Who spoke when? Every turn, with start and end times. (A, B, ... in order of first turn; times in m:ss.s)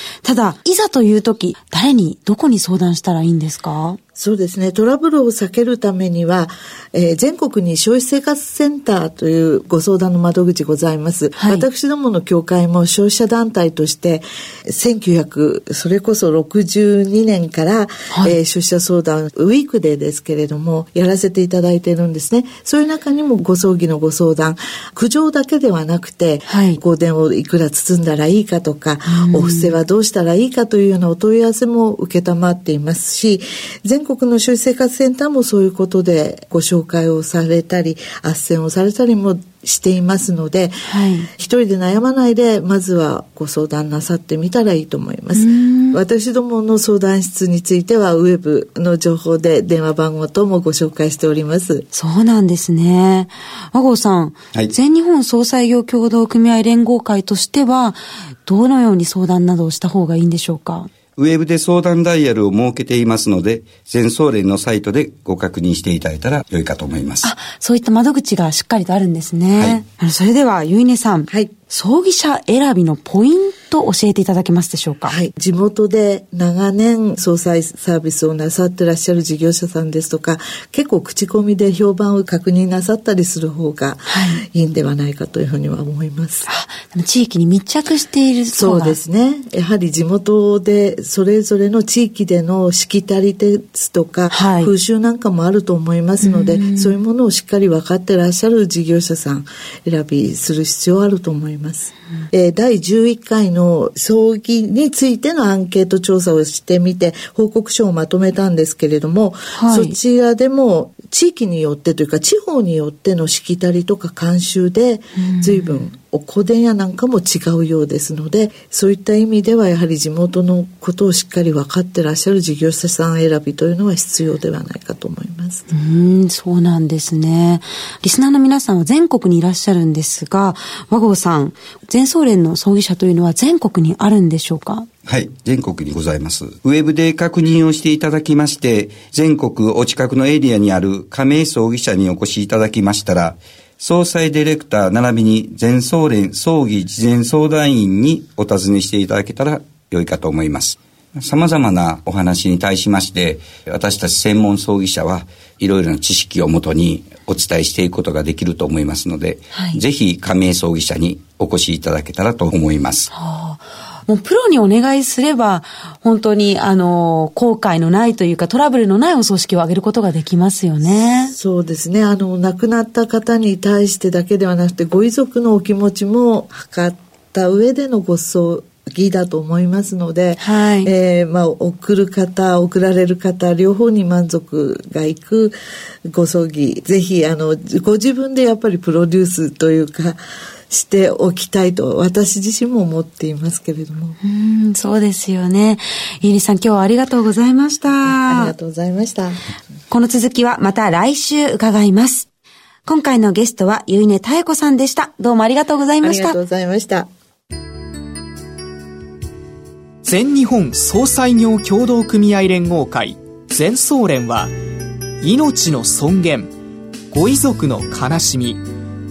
0:00.2-0:04.0 A
0:04.2-0:51.9 B
0:11.4-0:11.7 A
0:18.1-0:18.4 A
0:26.5-0:26.8 A
0:29.1-0:29.8 A
0:40.9-0:41.3 A
0:45.3-0:46.0 A
0:51.9-1:00.9 A
1:01.2-1:07.3 C
1:07.2-1:15.2 A
1:09.6-1:09.8 C
1:15.1-1:26.5 B
1:24.1-1:24.4 A
1:26.5-1:29.0 A
1:28.5-2:05.7 B
1:34.3-1:34.7 A
1:36.2-1:37.0 A
1:49.6-1:50.0 A
1:55.2-1:55.8 A
2:05.7-2:14.9 A
2:15.1-2:43.1 C
2:39.5-2:39.8 A
2:43.1-2:51.3 A
2:51.3-3:05.6 B
3:00.4-3:00.9 A
3:06.1-3:10.2 B
3:10.7-3:14.2 B
3:14.2-3:18.5 A
3:18.0-3:19.4 B
3:19.9-3:22.3 A
3:22.9-3:26.4 A
3:26.0-3:27.1 B
3:30.0-3:34.5 D
3:35.2-3:36.5 D
3:37.1-3:38.6 D